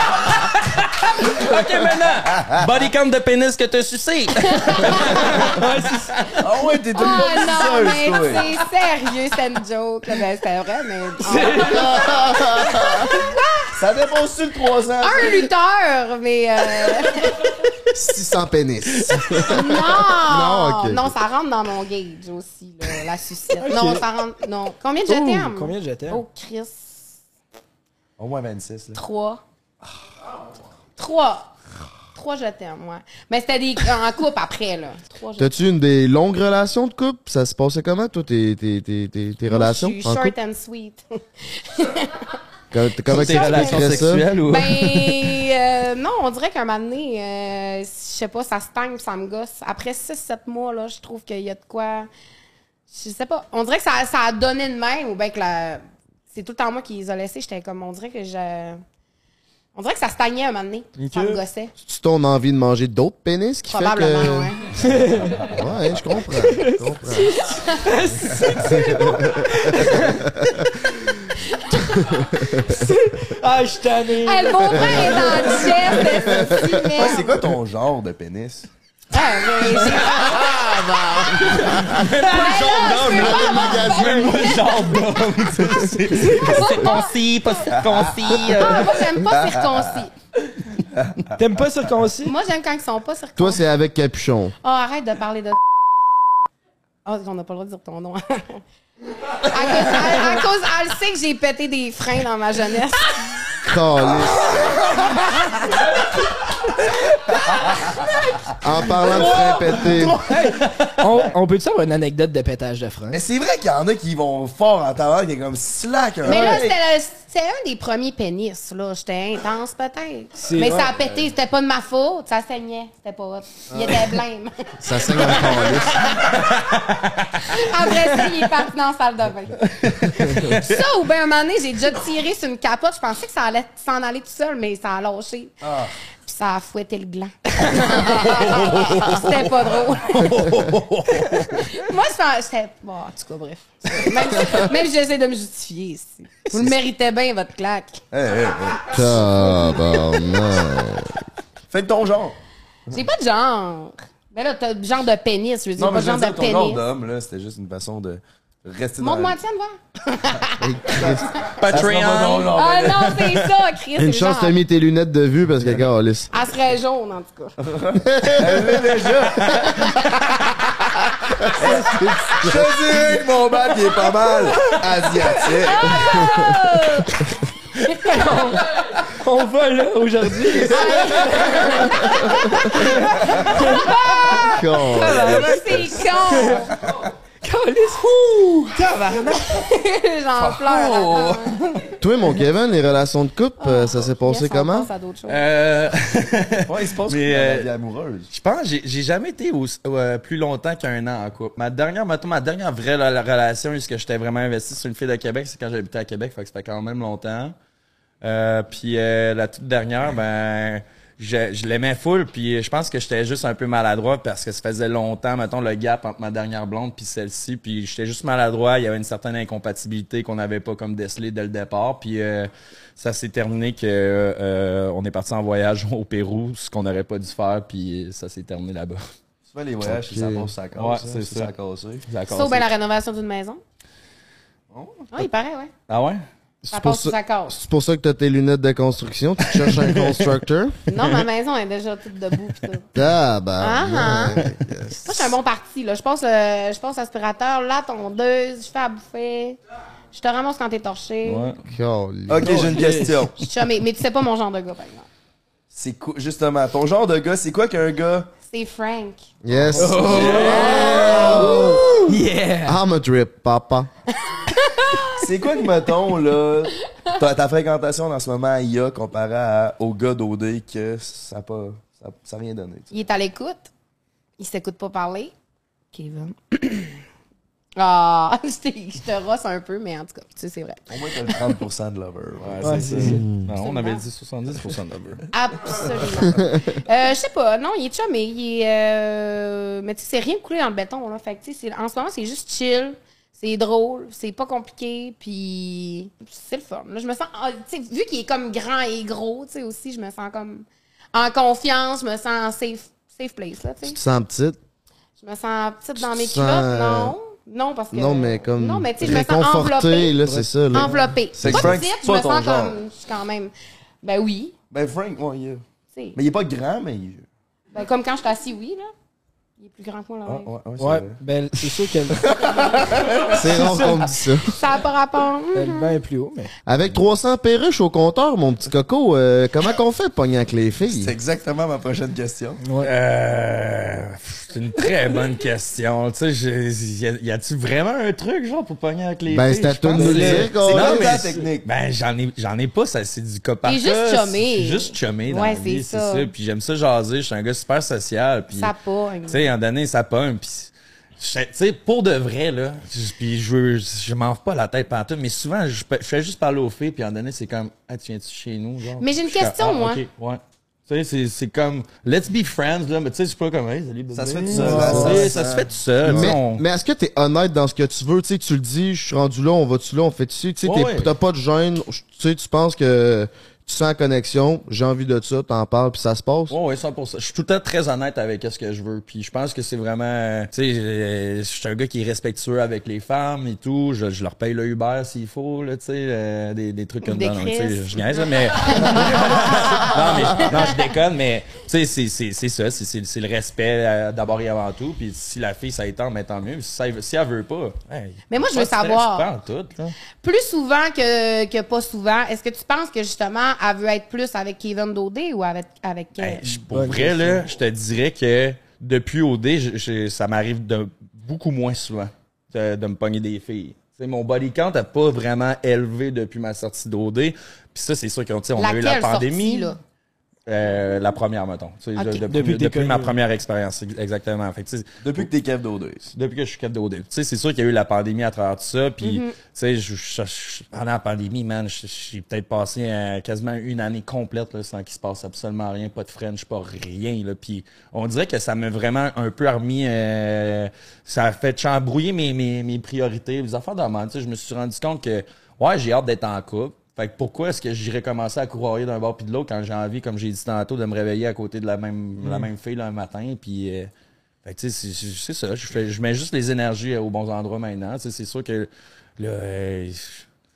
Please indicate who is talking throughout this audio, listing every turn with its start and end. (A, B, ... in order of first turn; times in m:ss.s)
0:00.5-0:05.3 A
0:04.4-0:05.4 B
0:05.0-0:06.3 C
0:06.4-0:08.5 D
0:06.9-0:13.8 B
0:11.2-0:12.2 C
0:11.6-0:13.2 E
0:13.8-0:15.5 D
0:15.0-0:17.6 B
0:17.9-0:21.1 E
0:19.1-0:19.3 A
0:19.4-0:27.1 B
0:23.6-0:24.0 C
0:25.0-0:26.2 C
0:28.2-0:29.0 D
0:28.9-0:29.4 B
0:31.0-0:31.5 B
0:32.1-0:35.5 B
0:35.4-0:40.3 E
0:39.5-0:42.4 B
0:42.7-0:44.2 E
0:43.1-0:52.1 B
0:43.1-0:45.4 A
0:52.9-0:58.8 B
0:59.7-1:01.7 B
1:01.8-1:04.5 E
1:03.7-1:04.8 B
1:04.8-1:05.5 C
1:05.4-1:07.4 E
1:06.4-1:10.7 C
1:07.4-1:07.9 B
1:08.7-1:10.5 E
1:11.5-1:12.2 B
1:12.1-1:12.8 E
1:12.6-1:16.3 C
1:14.2-1:17.4 B
1:14.8-1:15.1 E
1:16.2-1:16.9 E
1:16.9-1:18.7 D
1:19.1-1:25.1 B
1:19.6-1:29.0 A
1:21.7-1:22.0 E
1:22.9-1:24.6 E
1:26.2-1:27.8 B
1:28.3-1:30.1 B
1:31.0-1:31.2 D
1:31.4-1:32.3 C
1:32.2-1:33.6 B
1:33.4-1:34.5 E
1:34.6-1:35.6 B
1:37.0-1:38.6 B
1:39.3-1:43.2 B
1:43.6-1:44.6 E
1:48.6-1:50.2 E
1:49.0-1:51.0 A
1:50.2-1:53.2 C
1:53.1-1:56.8 D
1:56.2-2:06.4 B
2:00.4-2:01.0 C
2:04.8-2:06.1 E
2:06.2-2:07.5 A
2:07.4-2:15.5 B
2:09.8-2:10.7 A
2:15.6-2:15.9 D
2:16.2-2:20.5 B
2:17.8-2:19.5 A
2:20.0-2:21.6 A
2:21.4-2:28.0 B
2:28.1-2:29.2 D
2:28.9-2:31.2 E
2:31.7-2:32.4 D
2:32.9-2:36.8 B
2:35.8-2:39.4 D
2:39.0-2:41.5 B
2:40.6-2:41.3 E
2:40.9-2:43.4 D
2:41.6-2:42.6 A
2:42.5-2:44.6 B
2:44.0-2:46.3 E
2:46.3-2:47.5 B
2:47.6-2:49.8 D
2:48.0-2:49.0 E
2:49.6-2:50.5 B
2:51.3-2:52.8 E
2:51.6-2:56.2 D
2:55.6-2:57.2 B
2:56.0-2:56.5 E
2:57.8-2:58.6 B
2:57.9-3:04.0 C
3:00.6-3:06.8 B
3:04.4-3:05.6 E
3:04.8-3:06.7 C
3:07.4-3:09.6 C
3:09.4-3:11.6 B
3:10.4-3:11.2 D
3:10.7-3:11.4 A
3:12.0-3:14.9 E
3:13.6-3:15.4 B
3:15.3-3:17.7 A
3:16.7-3:18.3 D
3:18.3-3:27.5 A
3:28.2-3:49.0 A
3:49.5-3:52.0 D
3:49.8-3:50.5 E
3:50.8-3:51.5 A
3:52.0-3:52.7 A
3:52.3-3:53.6 B
3:54.7-3:55.1 D
3:55.1-3:55.7 B
3:55.9-3:56.2 A
3:56.6-4:00.8 E
3:56.7-3:57.5 B
3:59.5-4:00.3 A
4:00.9-4:02.9 B
4:02.9-4:05.3 E
4:03.6-4:04.4 B
4:05.0-4:09.6 B
4:10.1-4:11.5 B
4:11.2-4:11.6 A
4:11.6-4:12.8 E
4:12.3-4:13.3 D
4:12.4-4:13.2 C
4:13.4-4:15.1 B
4:15.7-4:18.3 D
4:18.5-4:19.2 B
4:19.4-4:21.7 E
4:19.8-4:22.8 C
4:19.9-4:22.1 D
4:19.9-4:21.5 A
4:20.7-4:21.8 B
4:22.6-4:23.9 E
4:24.3-4:25.2 B
4:25.1-4:32.9 D
4:32.9-4:33.7 B
4:34.4-4:35.3 B
4:35.9-4:37.0 B
4:37.8-4:41.4 B
4:40.9-4:43.2 D
4:42.4-4:45.2 A
4:42.6-4:43.2 C
4:43.2-4:43.4 E
4:43.5-4:44.0 B
4:45.3-5:04.0 B
5:03.8-5:04.6 E
5:05.2-5:10.2 B
5:06.0-5:07.2 E
5:07.9-5:11.8 E
5:10.7-5:14.5 B
5:11.4-5:12.8 D
5:14.7-5:15.6 D
5:16.1-5:17.2 D
5:17.7-5:18.9 B
5:19.6-5:20.5 B
5:20.2-5:21.2 D
5:20.8-5:22.3 C
5:22.1-5:23.9 D
5:23.3-5:24.5 E
5:23.6-5:23.9 C
5:24.4-5:26.0 B
5:25.5-5:26.5 C
5:26.6-5:31.1 E
5:30.9-5:32.6 D
5:32.6-5:32.9 C
5:32.8-5:48.7 A
5:39.3-5:41.2 E
5:39.9-5:41.4 C
5:40.2-5:41.6 D
5:43.6-5:46.3 B
5:48.5-5:49.5 B
5:49.3-6:06.6 A
5:59.0-6:00.0 B
6:04.1-6:06.3 D
6:04.5-6:05.3 C
6:04.6-6:05.2 E
6:06.0-6:16.5 E
6:10.6-6:11.1 A
6:16.5-6:39.9 A
6:27.0-6:30.8 B
6:38.3-6:39.3 B
6:40.2-6:46.6 B
6:46.2-6:59.7 A
6:46.6-6:47.5 C
6:58.6-6:59.8 B
7:00.5-7:05.3 A
7:02.0-7:02.2 B
7:02.3-7:03.1 C
7:05.0-7:06.1 D
7:06.1-7:33.9 A
7:09.0-7:09.3 B
7:34.4-7:40.2 A